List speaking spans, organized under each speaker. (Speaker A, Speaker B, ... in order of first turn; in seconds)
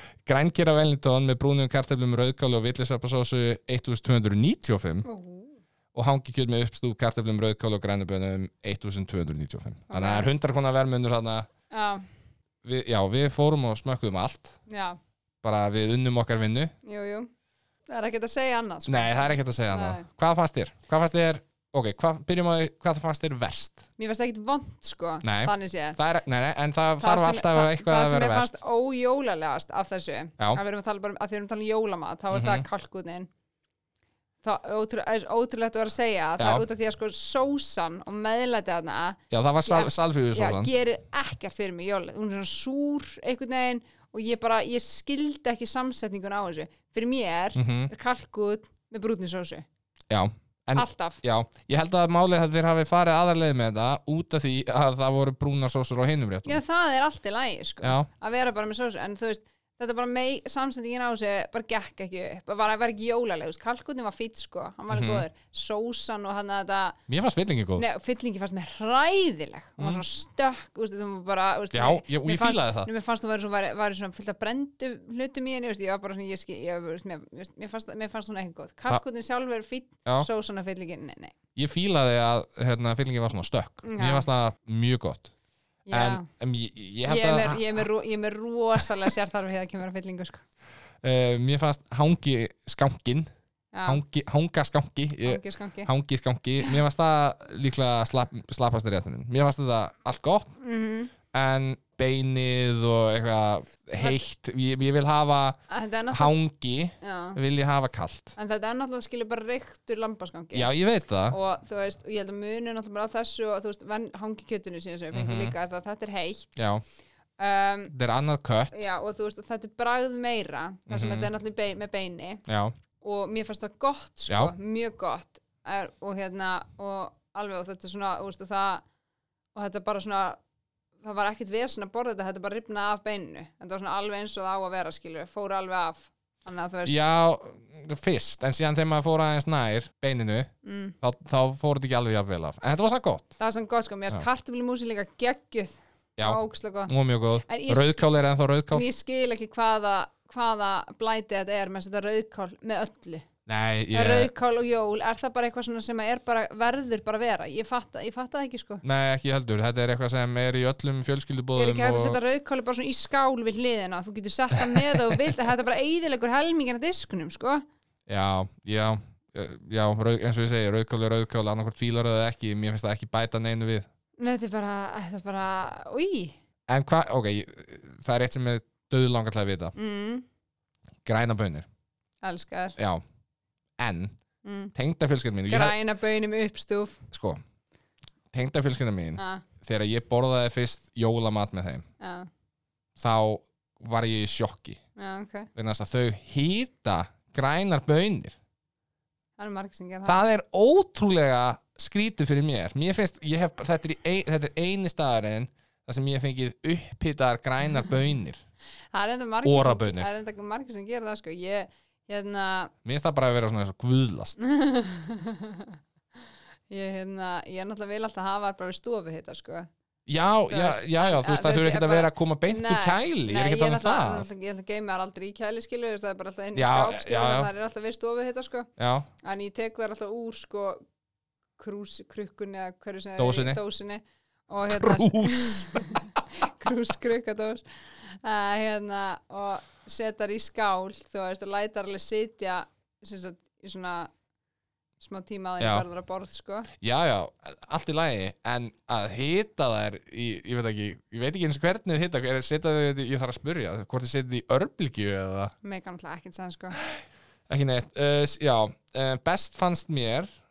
Speaker A: 0.2-5.0, 5.9-11.5, 12.6-14.6, 15.4-16.7, 18.9-23.9, 25.2-28.5, 32.3-32.6, 36.4-36.6, 39.3-40.7, 47.5-47.9, 50.1-56.6, 57.8-58.1, 64.9-65.2, 67.1-67.8, 69.8-70.0, 71.7-72.9, 81.5-85.3, 85.9-87.6, 91.0-93.3, 93.8-100.5, 101.3-105.6, 106.1-108.3, 110.5-111.4, 115.1-115.5, 116.5-116.8, 117.9-118.8, 120.9-121.3, 122.5-122.8, 124.3-124.5, 136.8-143.3, 146.2-148.8, 153.5-154.3, 158.8-162.2, 164.5-165.3, 168.1-173.9, 176.7-179.7, 181.0-181.7, 182.8-183.0, 183.8-184.2, 184.7-185.8, 187.1-187.4, 188.3-191.8, 193.0-194.8, 195.6-198.3, 200.0-208.4, 209.4-210.1, 212.8-214.4, 220.1-224.3, 226.5-227.5, 228.8-229.1, 233.2-233.6, 234.7-235.9, 245.6-245.8, 246.8-255.5, 256.8-260.3
Speaker B: 5.0-5.6, 9.9-10.3, 11.7-12.1, 14.7-15.0, 16.8-17.3, 17.9-20.1, 24.0-26.0, 27.0-33.3, 34.4-49.6, 50.7-51.2, 56.5-67.0, 67.8-81.3, 83.8-84.3, 85.9-86.2, 87.0-90.4, 93.7-94.0, 95.2-95.9, 100.6-101.1, 104.0-104.2, 105.7-106.3, 107.0-107.4, 108.3-110.7, 111.3-116.5, 117.4-117.9, 118.7-122.4, 123.0-128.8, 129.5-130.4, 131.0-136.9, 140.6-140.9, 143.4-146.9, 147.4-148.1, 148.7-153.3, 153.9-158.8, 161.5-167.6, 174.2-176.3, 179.7-180.2, 182.2-182.8, 184.4-184.7, 185.5-187.1, 189.2-189.4, 192.0-192.3, 194.9-195.5, 199.4-200.2, 208.9-212.7, 214.4-215.8, 216.7-219.7, 220.5-228.7, 229.2-230.8, 231.6-244.1, 245.0-246.7, 255.6-256.8